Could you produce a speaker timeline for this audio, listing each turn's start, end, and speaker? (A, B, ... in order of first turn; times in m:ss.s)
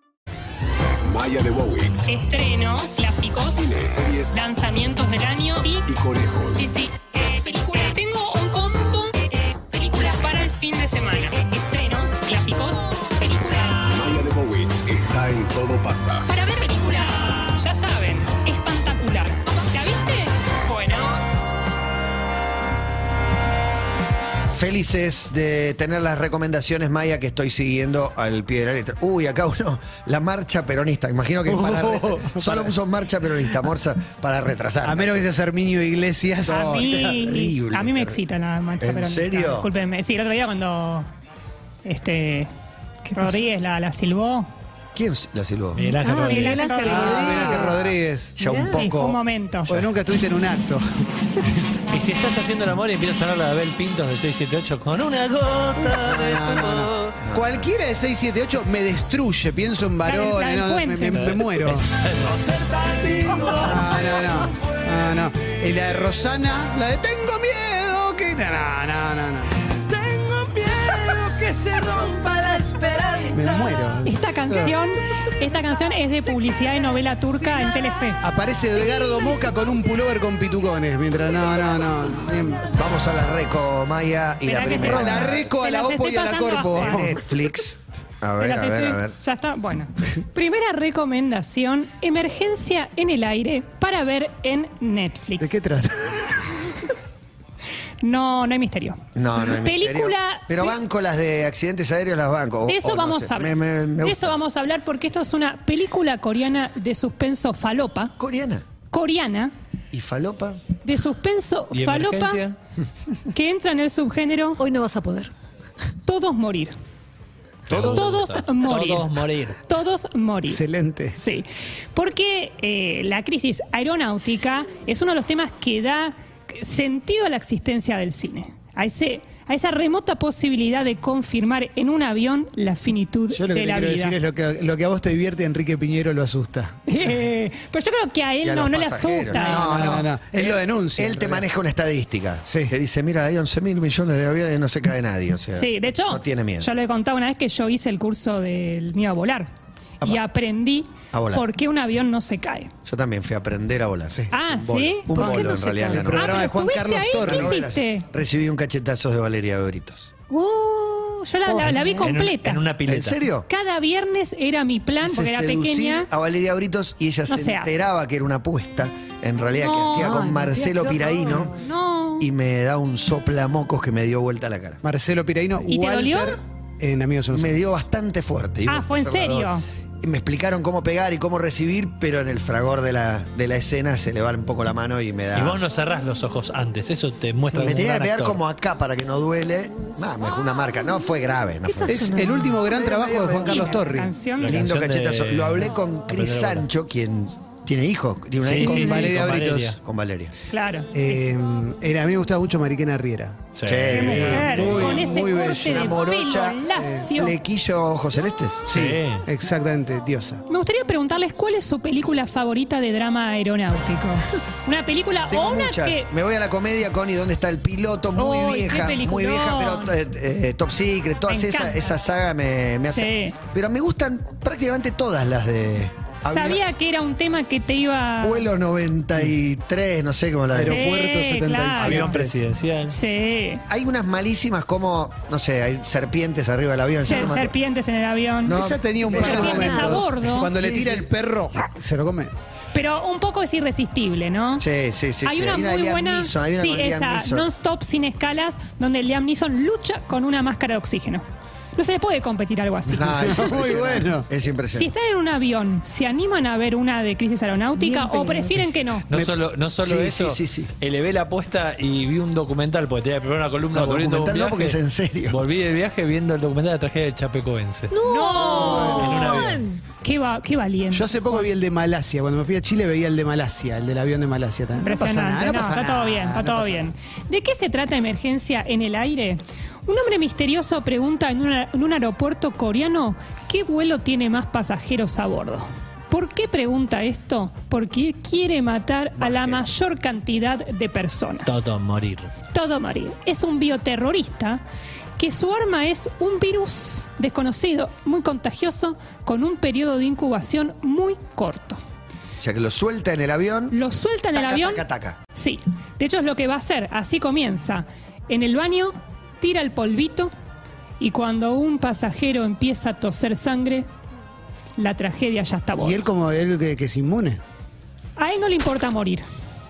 0:01.0-0:02.0 A
0:02.1-0:05.9 B
0:03.7-0:04.3 A
0:05.9-0:06.6 A
0:06.5-0:14.2 B
0:13.9-0:16.2 A
0:16.3-0:21.2 B
0:24.5-0:35.3 C
0:31.5-0:32.7 D
0:34.8-0:37.2 D
0:36.4-0:38.2 C
0:36.5-0:41.1 B
0:38.8-0:39.7 C
0:41.8-0:42.5 B
0:43.0-0:44.5 B
0:45.0-0:45.9 C
0:45.8-0:46.7 E
0:46.1-0:47.2 F
0:46.2-0:47.7 B
0:46.8-0:48.4 D
0:46.9-0:49.2 C
0:48.4-0:48.7 F
0:48.7-0:49.7 B
0:49.7-0:51.7 D
0:51.9-0:57.2 E
0:56.1-1:01.9 D
0:57.2-0:57.7 C
1:00.0-1:01.2 B
1:01.1-1:04.2 E
1:03.6-1:09.6 D
1:09.8-1:13.9 F
1:13.3-1:14.7 D
1:14.0-1:18.2 B
1:18.2-1:22.7 D
1:22.7-1:25.5 C
1:24.5-1:27.2 B
1:24.6-1:27.2 D
1:26.7-1:29.1 C
1:28.4-1:35.6 B
1:35.4-1:36.7 D
1:38.0-1:40.8 B
1:39.2-1:44.4 C
1:42.7-1:48.1 B
1:48.2-1:48.6 C
1:48.9-1:49.5 B
1:49.9-1:50.6 C
1:50.8-1:52.4 B
1:51.7-1:52.6 E
1:53.3-1:54.6 B
1:54.6-1:55.3 F
1:56.0-1:56.7 B
1:57.7-1:58.1 C
1:57.7-1:59.6 E
1:57.8-2:00.6 B
2:00.5-2:01.2 D
2:01.2-2:14.2 B
2:13.3-2:16.8 D
2:16.9-2:20.0 B
2:18.4-2:26.7 C
2:19.3-2:21.5 D
2:22.4-2:22.7 D
2:25.5-2:29.5 B
2:30.0-2:32.7 B
2:31.1-2:31.4 C
2:32.9-2:36.4 C
2:34.3-2:38.1 B
2:35.8-2:37.5 D
2:37.2-2:40.1 C
2:40.3-2:42.6 B
2:41.5-2:42.1 F
2:41.6-2:43.2 E
2:42.9-2:43.5 C
2:43.5-2:46.1 B
2:45.0-2:51.6 C
2:47.3-2:47.8 B
2:49.5-2:50.3 B
2:50.0-2:51.5 F
2:51.4-2:52.3 B
2:52.2-2:54.8 C
2:54.8-2:57.6 D
2:55.7-2:56.4 B
2:57.3-3:05.6 C
2:58.7-2:59.6 B
3:05.3-3:08.4 E
3:07.6-3:13.8 C
3:11.8-3:12.6 F
3:11.9-3:14.1 D
3:13.0-3:14.6 B
3:14.4-3:16.7 E
3:14.5-3:19.2 C
3:18.4-3:19.8 E
3:18.6-3:19.8 D
3:18.7-3:19.0 B
3:19.8-3:20.3 C
3:20.5-3:21.3 B
3:20.9-3:25.9 D
3:23.5-3:24.2 E
3:23.6-3:28.7 C
3:23.9-3:27.4 B
3:26.8-3:27.1 D
3:28.7-3:30.4 D
3:28.7-3:29.3 E
3:30.5-3:36.1 B
3:35.3-3:46.6 C
3:38.2-3:39.9 B
3:41.3-3:42.0 B
3:42.9-3:43.4 B
3:46.2-3:48.5 B
3:48.2-3:50.8 C
3:50.5-3:52.3 D
3:50.6-3:52.2 B
3:51.8-3:53.0 E
3:52.9-3:53.6 B
3:53.7-3:57.5 C
3:57.0-3:58.6 B
3:58.4-4:01.1 C
3:58.5-4:02.3 D
3:59.1-4:00.5 B
4:02.7-4:04.7 B
4:04.6-4:07.5 C
4:05.2-4:11.2 B
4:11.8-4:13.7 B
4:12.9-4:14.9 C
4:13.3-4:14.3 D
4:14.7-4:19.1 B
4:17.8-4:18.7 F
4:19.1-4:27.9 E
4:19.8-4:20.7 C
4:23.7-4:25.4 C
4:27.9-4:29.8 F
4:28.0-4:29.4 B
4:28.6-4:29.1 D
4:28.9-4:29.7 E
4:30.0-4:31.5 B
4:30.9-4:36.8 D
4:34.8-4:51.7 B
4:49.2-4:49.7 C
4:51.4-4:52.3 E
4:52.5-4:54.6 B
4:55.2-5:01.8 B
5:02.4-5:03.8 C
5:03.7-5:10.3 B
5:04.3-5:05.2 C
5:11.0-5:13.9 B
5:14.8-5:16.0 B
5:15.8-5:17.4 D
5:18.2-5:19.2 B